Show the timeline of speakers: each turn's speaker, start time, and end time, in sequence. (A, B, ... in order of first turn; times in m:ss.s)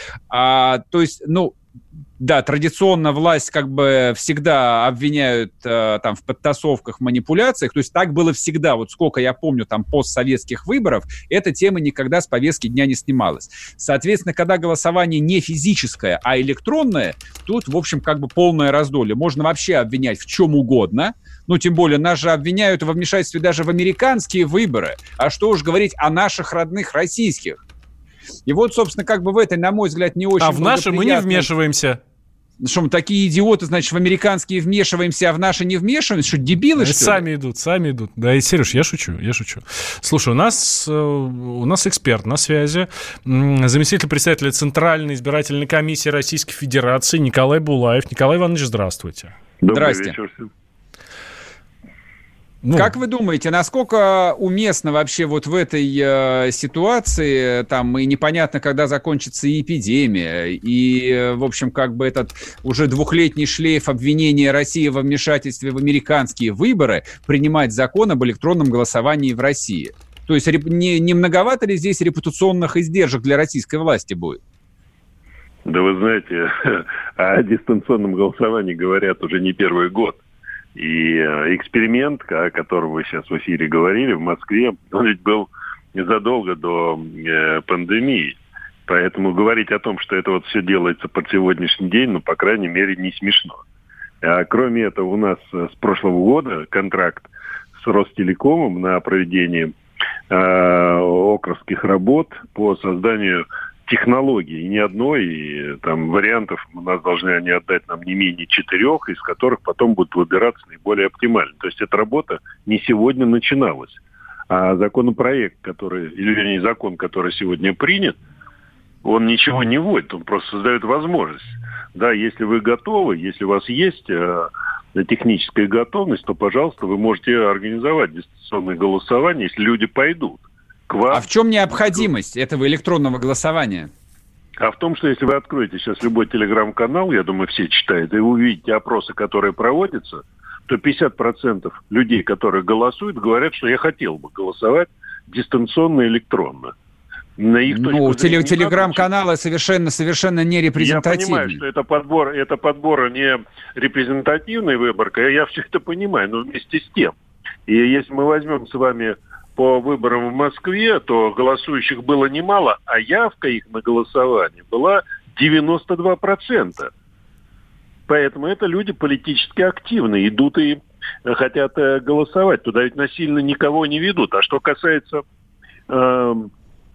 0:00.3-0:01.6 A
0:02.2-0:27.6 A
0:28.4-0:31.5 A
0:30.4-0:32.0 B
0:32.6-0:37.2 A
0:36.8-0:49.3 B
0:49.6-0:50.5 C
0:49.7-0:50.2 A
0:52.6-0:52.9 B
0:52.7-1:14.4 A
1:15.7-1:20.2 C
1:20.7-1:33.6 C
1:34.2-1:39.7 C
1:40.3-1:54.0 C
1:54.5-1:58.2 C
1:59.0-2:12.0 C
2:11.1-2:13.9 A
2:14.6-2:26.7 C
2:27.4-2:29.0 C
2:27.7-2:31.6 A
2:30.7-2:37.1 C
2:37.7-2:46.9 C
2:48.1-2:55.2 C
2:55.9-2:56.5 C